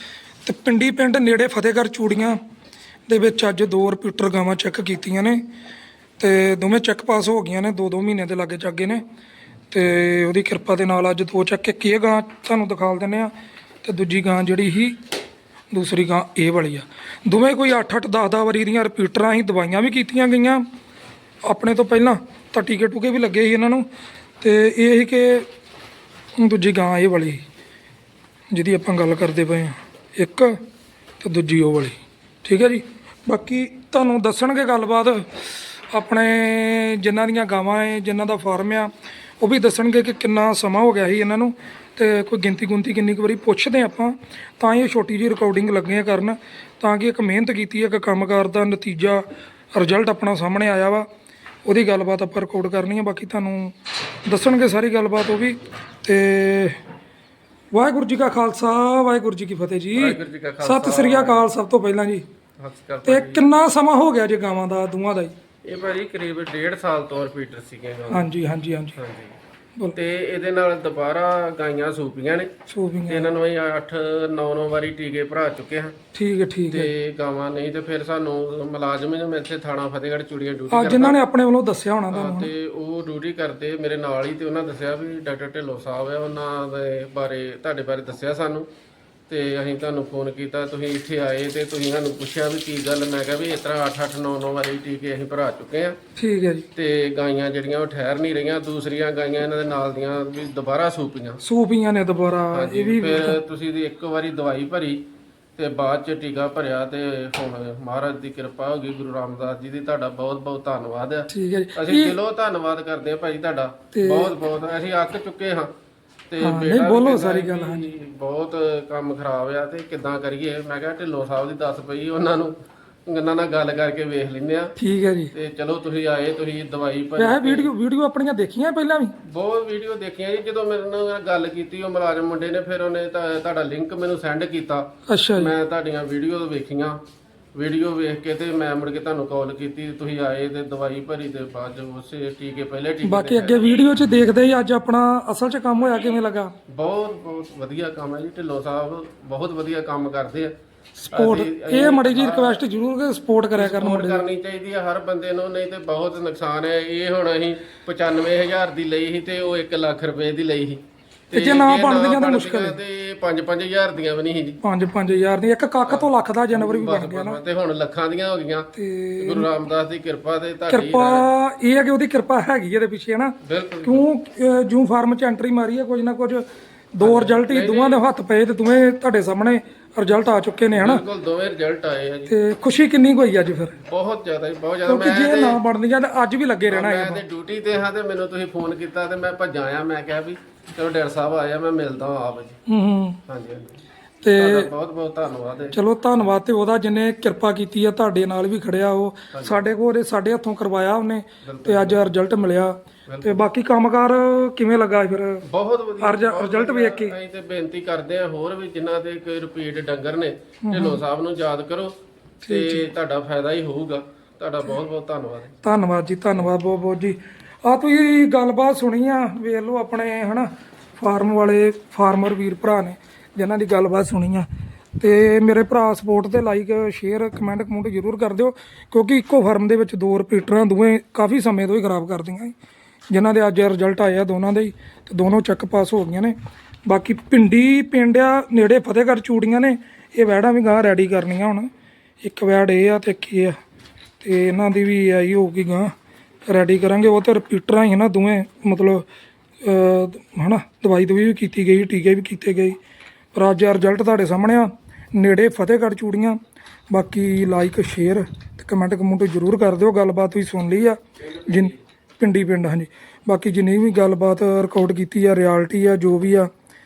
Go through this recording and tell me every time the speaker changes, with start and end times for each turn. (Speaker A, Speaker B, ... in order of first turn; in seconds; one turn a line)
Speaker A: 0.4-2.4
Speaker A: 3.1-5.4
Speaker A: 6.2-9.0
Speaker A: 9.7-13.3
Speaker A: 13.8-15.0
Speaker A: 15.7-20.6
Speaker A: 21.5-23.9
Speaker A: 24.4-25.5
Speaker A: 26.4-27.4
Speaker A: 28.5-30.6
Speaker A: 31.2-35.3
Speaker A: 35.9-51.0
Speaker A: 51.6-53.7
Speaker A: 54.2-56.8
Speaker A: 57.7-62.2
Speaker B: 59.9-61.5
Speaker B: 62.6-63.5
Speaker A: 63.0-65.3
Speaker B: 65.6-68.3
Speaker A: 68.1-69.0
Speaker B: 69.0-69.3
Speaker B: 69.9-72.5
Speaker A: 72.7-73.3
Speaker B: 73.1-75.9
Speaker A: 76.1-76.9
Speaker B: 76.7-81.2
Speaker A: 80.7-82.5
Speaker B: 82.1-88.7
Speaker B: 89.3-95.9
Speaker A: 96.2-96.7
Speaker B: 96.7-101.4
Speaker A: 101.4-103.4
Speaker B: 102.5-105.0
Speaker B: 105.5-115.7
Speaker A: 111.3-112.2
Speaker A: 113.9-114.3
Speaker B: 116.3-122.5
Speaker A: 116.4-117.9
Speaker B: 123.1-124.7
Speaker A: 124.8-125.3
Speaker B: 125.3-127.7
Speaker A: 127.2-129.1
Speaker B: 129.2-134.8
Speaker A: 135.1-135.5
Speaker B: 135.3-137.0
Speaker B: 137.5-143.8
Speaker A: 143.0-146.5
Speaker B: 146.7-150.5
Speaker A: 151.0-154.2
Speaker B: 151.1-152.6
Speaker B: 153.5-164.6
Speaker A: 161.3-162.8
Speaker A: 164.6-167.4
Speaker B: 165.9-171.3
Speaker A: 168.8-169.5
Speaker A: 170.7-181.0
Speaker B: 173.4-174.1
Speaker B: 177.0-178.0
Speaker B: 180.7-182.3
Speaker A: 182.3-183.8
Speaker B: 183.9-185.6
Speaker A: 184.9-187.2
Speaker B: 186.7-192.6
Speaker A: 192.7-193.2
Speaker B: 193.3-193.8
Speaker A: 194.2-194.7
Speaker B: 194.4-195.8
Speaker A: 195.7-205.4
Speaker B: 199.3-199.7
Speaker B: 201.4-202.1
Speaker B: 203.1-203.5
Speaker B: 205.5-211.9
Speaker A: 206.0-207.2
Speaker A: 210.6-211.0
Speaker A: 212.4-212.8
Speaker B: 212.5-215.6
Speaker A: 215.6-224.5
Speaker A: 225.0-232.5
Speaker A: 233.1-236.3
Speaker A: 236.8-241.7
Speaker A: 242.2-243.6
Speaker A: 244.2-245.9
Speaker A: 246.4-249.1
Speaker A: 249.6-252.8
Speaker A: 253.3-256.4
Speaker A: 256.9-266.5